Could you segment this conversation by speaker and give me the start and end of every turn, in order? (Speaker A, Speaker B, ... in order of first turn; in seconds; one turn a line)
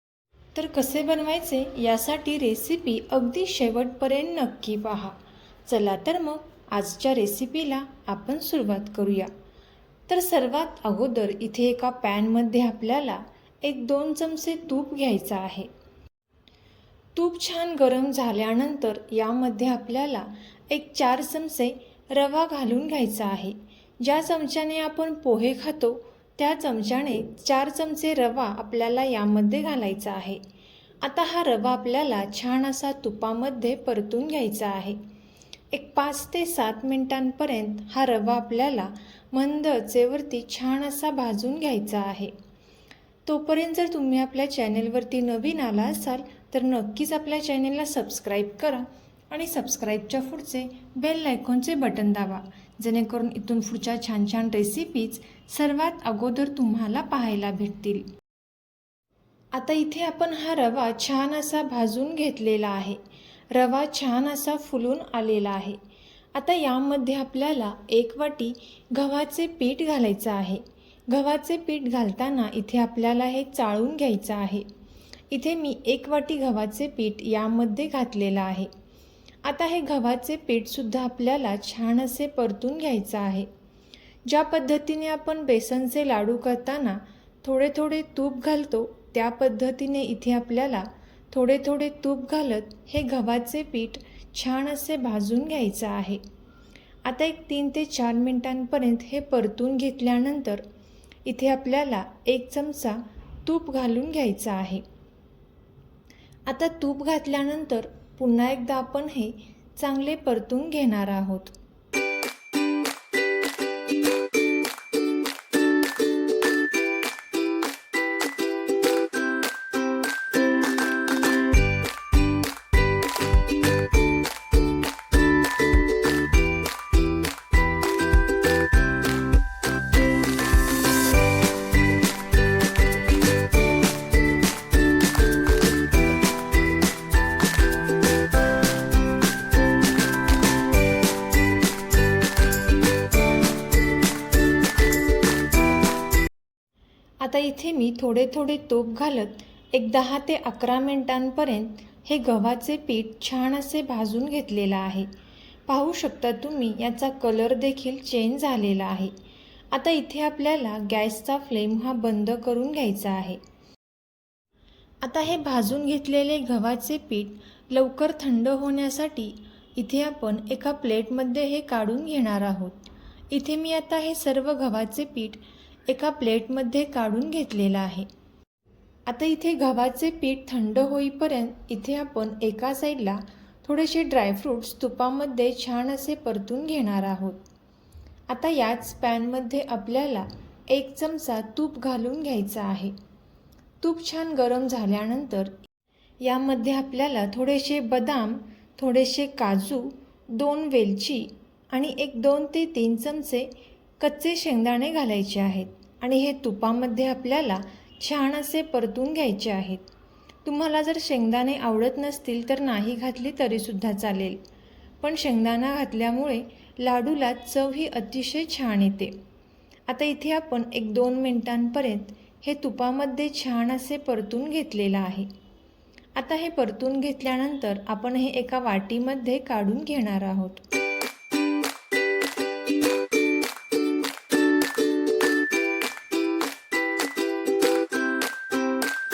Speaker A: 0.5-9.3
Speaker A: 10.1-15.7
Speaker A: 17.1-30.4
Speaker A: 31.0-35.0
Speaker A: 35.7-42.3
Speaker A: 43.2-58.1
Speaker A: 59.5-63.0
Speaker A: 63.5-65.8
Speaker A: 66.3-74.7
Speaker A: 75.3-78.7
Speaker A: 79.4-83.5
Speaker A: 84.2-96.2
Speaker A: 97.0-100.6
Speaker A: 101.2-104.8
Speaker A: 106.5-111.5
Speaker A: 147.2-155.1
Speaker A: 155.7-159.1
Speaker A: 159.7-163.4
Speaker A: 165.0-178.1
Speaker A: 179.1-187.4
Speaker A: 188.3-192.9
Speaker A: 193.8-195.6
Speaker A: 196.2-209.8
Speaker A: 210.4-214.4
Speaker A: 215.0-219.2
Speaker A: 219.9-225.3
Speaker A: 226.1-230.6